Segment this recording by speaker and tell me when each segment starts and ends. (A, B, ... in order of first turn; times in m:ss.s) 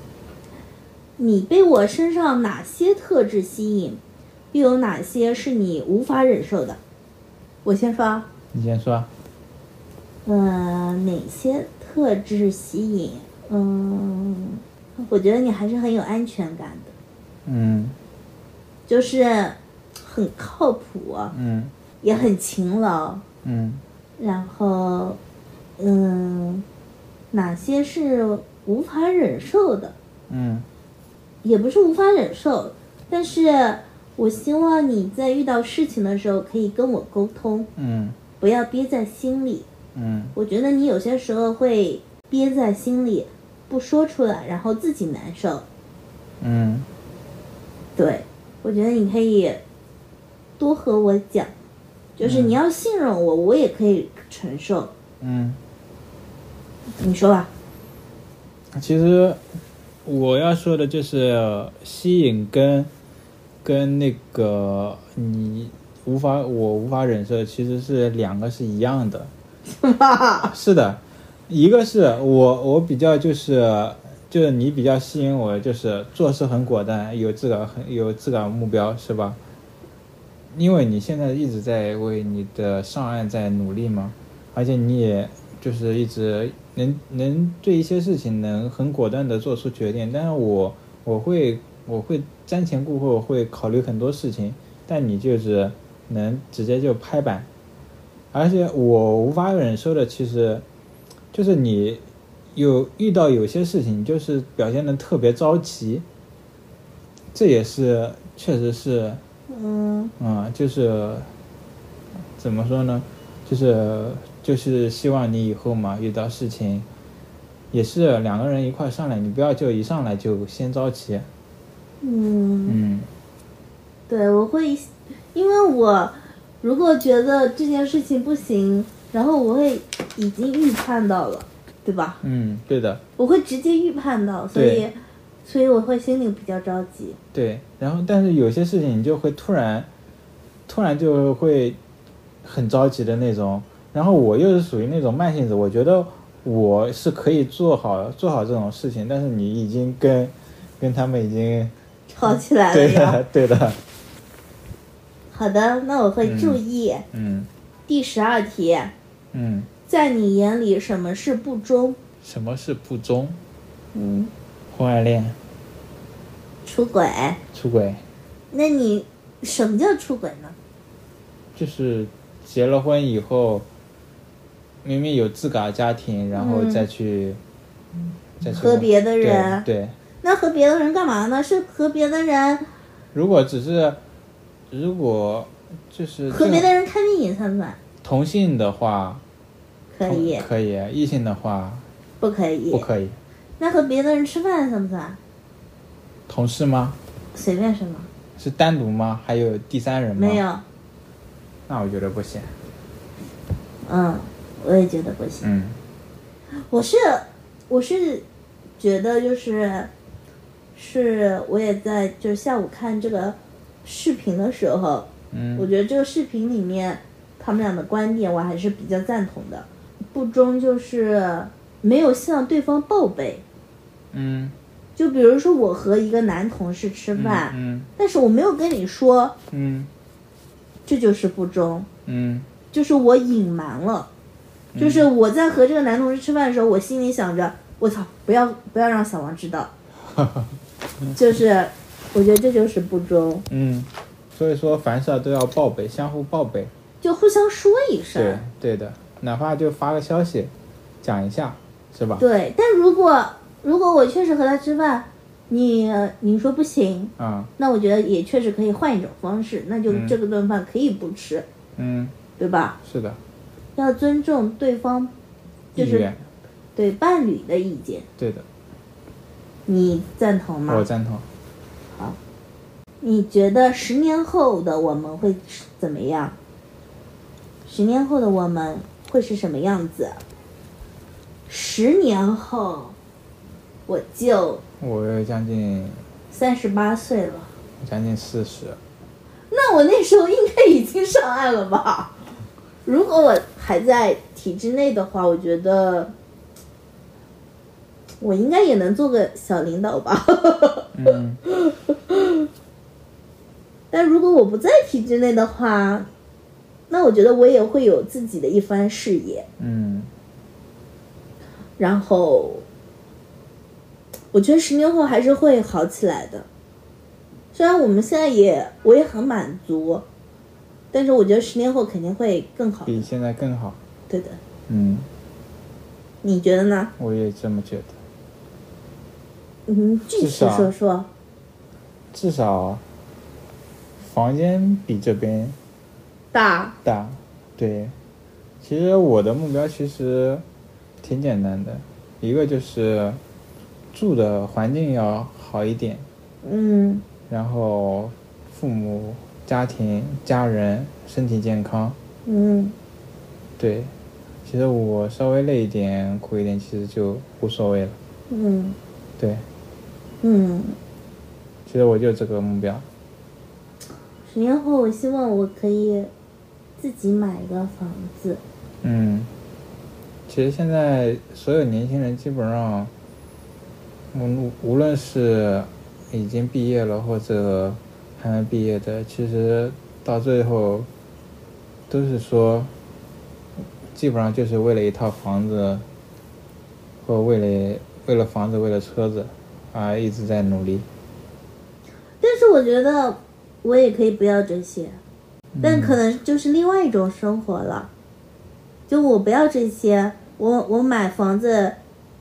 0:01.2-0:04.0 A
0:04.5-0:06.8 A
0:07.6-0:08.3 A
0:08.5-0:09.1 B
0:10.3-0:16.9 A
0:17.5-0:18.0 B
0:18.9-0:21.3 A
0:21.3-0:21.7 B
0:22.0-0:23.2 A
0:23.4-0:23.8 B
0:24.2-0:25.2 A
0:25.8-0:26.6 A
0:27.3-0:30.0 A
0:30.3-0:30.7 B
0:31.4-0:37.7 A
0:37.8-0:38.2 B
0:38.4-0:39.7 A
0:40.0-0:40.4 B
0:40.4-0:45.6 A
0:46.4-0:46.9 B
0:48.0-0:49.6 A
0:50.6-0:51.5 A
0:52.2-0:54.9 A
0:52.2-0:52.6 B
0:55.2-0:55.6 B
0:57.0-0:57.5 A
0:58.7-0:59.4 B
1:00.0-1:02.9 B
1:03.6-1:09.3 B
1:09.7-1:10.5 A
1:10.4-1:19.4 B
1:20.5-1:37.5 B
1:38.3-1:40.6 B
1:41.3-1:46.1 B
1:47.3-1:49.2 B
1:49.5-1:50.1 A
1:50.2-1:51.3 B
1:52.4-1:56.9 B
1:57.7-2:01.3 B
2:02.0-2:02.8 A
2:02.7-2:03.1 B
2:04.1-2:12.2 A
2:12.2-2:13.0 B
2:13.2-2:17.2 A
2:14.5-2:14.9 B
2:17.3-2:19.9 B
2:20.7-2:21.8 B
2:22.4-2:31.7 B
2:32.1-2:33.2 A
2:32.3-2:33.8 B
2:35.3-2:37.0 A
2:36.2-2:36.6 B
2:37.1-2:37.5 B
2:37.9-2:38.9 A
2:39.3-2:39.7 B
2:39.9-2:42.0 A
2:42.2-2:43.4 B
2:43.9-2:44.3 A
2:44.7-2:45.4 B
2:46.6-2:47.4 A
2:47.5-2:48.0 B
2:48.5-2:50.6 A
2:51.6-2:53.7 B
2:54.8-2:57.4 B
2:56.3-2:56.9 A
2:58.4-3:00.0 B
2:58.5-2:59.7 A
3:00.2-3:02.7 A
3:03.1-3:04.0 B
3:04.7-3:06.7 B
3:06.3-3:07.8 A
3:08.0-3:09.2 B
3:09.9-3:10.5 A
3:10.0-3:11.9 B
3:12.2-3:12.9 A
3:12.7-3:13.2 B
3:13.6-3:15.2 A
3:16.3-3:17.0 B
3:17.3-3:18.1 A
3:18.4-3:20.4 B
3:20.2-3:20.6 A
3:21.7-3:22.6 B
3:23.9-3:25.5 A
3:25.4-3:25.8 B
3:26.7-3:28.2 A
3:28.8-3:29.9 A
3:30.8-3:43.4 A
3:35.3-3:35.7 B
3:44.1-3:44.6 B
3:45.0-3:49.4 A
3:47.2-3:47.9 B
3:49.5-3:49.9 B
3:50.9-3:51.9 A
3:52.1-3:52.5 B
3:52.7-3:54.1 A
3:54.7-3:55.1 B
3:54.8-3:59.7 A
4:00.1-4:00.5 B
4:01.2-4:03.5 A
4:03.5-4:06.7 B
4:07.0-4:08.4 A
4:08.1-4:12.2 B
4:12.2-4:21.5 A
4:17.2-4:17.5 B
4:19.9-4:20.2 B
4:21.8-4:22.2 B
4:22.4-4:22.8 A
4:22.8-4:23.2 B
4:23.8-4:25.1 A
4:25.8-4:26.2 B
4:25.8-4:26.1 A
4:26.8-4:28.1 A
4:28.2-4:28.5 B
4:29.7-4:30.8 A
4:30.7-4:31.3 B
4:33.0-4:36.4 A
4:37.7-4:40.2 A
4:41.5-4:43.0 A
4:43.9-4:44.6 A
4:44.8-4:46.0 B
4:46.3-4:47.5 A
4:47.8-4:48.8 B
4:49.5-4:52.2 A
4:52.9-4:56.1 A
4:58.2-5:02.5 A
5:00.9-5:01.4 B
5:03.9-5:06.1 A
5:06.9-5:09.5 A
5:09.6-5:10.1 B
5:11.8-5:12.6 A
5:14.3-5:16.5 A
5:17.5-5:20.1 A
5:20.9-5:23.1 A
5:22.9-5:23.8 B
5:24.1-5:24.4 A
5:24.7-5:25.1 B
5:26.2-5:26.9 A
5:27.0-5:28.0 B
5:29.7-5:31.1 A
5:30.2-5:30.7 B
5:32.1-5:32.8 B
5:34.0-5:35.6 B
5:36.3-5:36.8 A
5:36.8-5:38.0 B
5:38.6-5:40.4 B
5:41.0-5:43.2 B
5:43.9-5:46.0 B
5:46.4-5:47.0 A
5:47.3-5:52.0 B
5:52.3-5:52.8 A
5:53.6-5:53.9 B
5:54.4-5:58.0 B
5:58.3-5:58.8 A
5:59.2-5:59.4 B
6:00.2-6:00.8 A
6:01.7-6:02.9 B
6:04.3-6:06.1 A
6:06.8-6:08.4 A
6:08.8-6:09.3 B
6:10.3-6:12.9 B
6:14.1-6:20.9 B
6:21.9-6:22.7 B
6:23.9-6:25.9 B
6:27.0-6:30.9 B
6:32.2-6:35.0 A
6:35.6-6:36.0 B
6:35.6-6:37.9 A
6:38.9-6:41.8 A